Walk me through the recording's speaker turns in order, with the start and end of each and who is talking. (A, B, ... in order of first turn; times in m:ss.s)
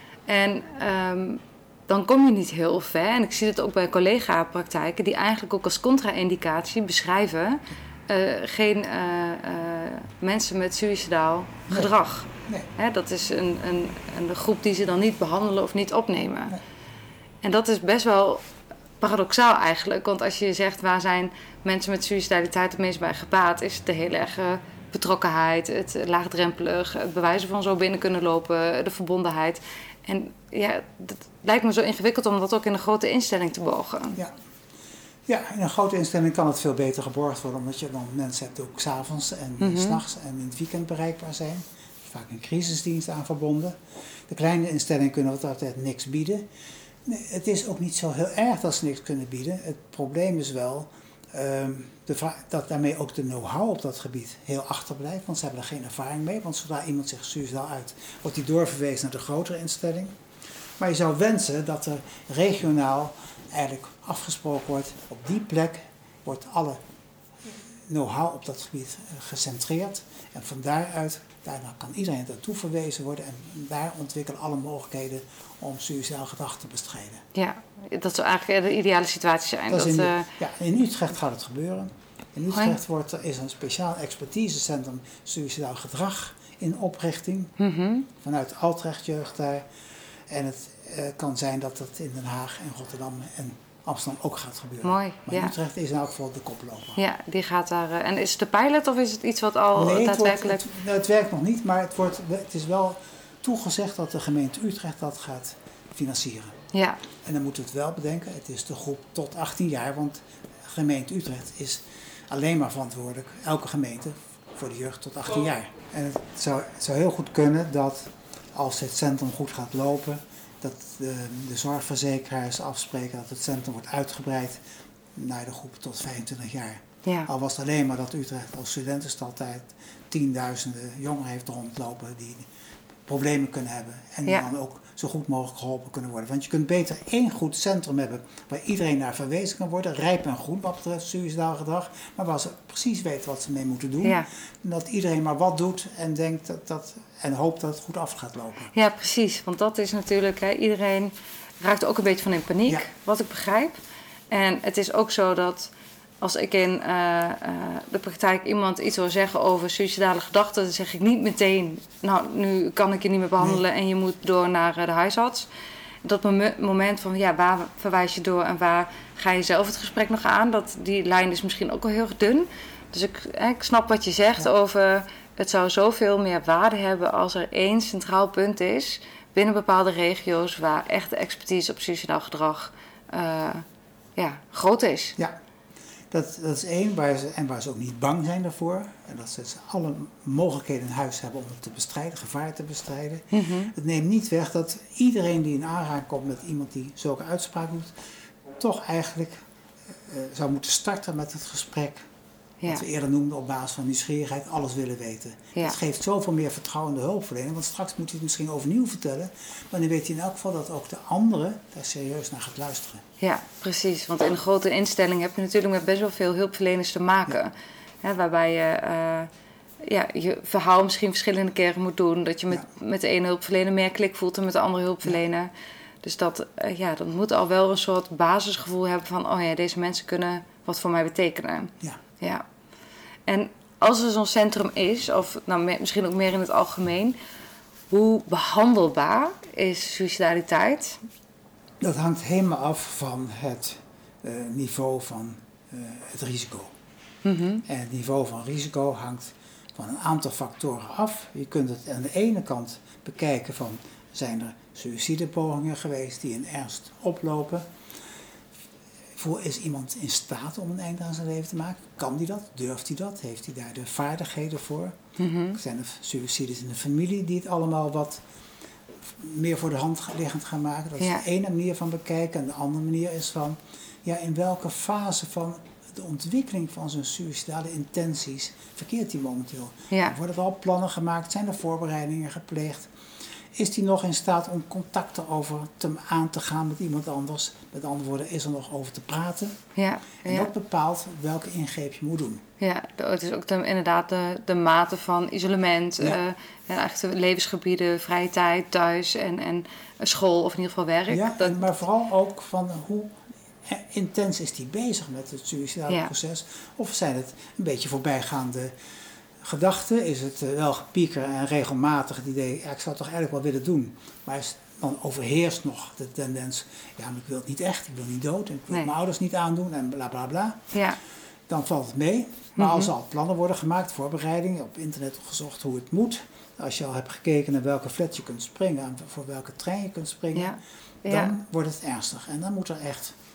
0:00.3-0:16.6 A
0:17.4-0:18.4 A
0:19.0-0:34.2 A
0:35.3-0:46.5 B
0:39.6-0:40.0 A
0:47.0-1:00.2 B
1:00.8-1:06.8 B
1:07.4-1:17.2 B
1:17.3-1:20.3 A
1:19.7-1:27.5 B
1:22.5-1:22.8 A
1:27.6-1:28.1 A
1:28.2-1:29.6 B
1:30.3-1:37.0 B
1:34.8-1:35.5 A
1:37.0-1:40.6 A
1:39.7-1:46.5 B
1:46.7-1:47.0 A
1:47.2-2:04.6 B
2:05.1-2:12.5 B
2:13.0-2:28.7 B
2:28.7-2:33.8 A
2:34.3-2:45.5 A
2:46.0-3:03.6 A
3:04.2-3:05.2 A
3:06.1-3:17.9 B
3:13.3-3:13.7 A
3:18.5-3:19.4 B
3:20.1-3:22.0 B
3:22.7-3:33.0 B
3:33.2-3:39.3 A
3:39.8-3:45.5 A
3:46.0-3:52.4 A
3:53.3-3:57.2 A
3:57.9-4:01.0 A
4:01.8-4:06.7 B
4:07.2-4:07.6 A
4:07.6-4:17.7 B
4:19.1-4:25.0 B
4:25.2-4:25.6 A
4:25.5-4:28.2 B
4:29.0-4:42.9 B
4:39.9-4:40.1 A
4:43.5-4:49.6 B
4:49.8-4:50.5 A
4:50.2-4:52.4 B
4:52.6-5:01.8 A
5:01.1-5:08.7 B
5:09.4-5:20.6 B
5:21.5-5:33.2 B
5:22.6-5:22.9 A
5:30.3-5:31.3 A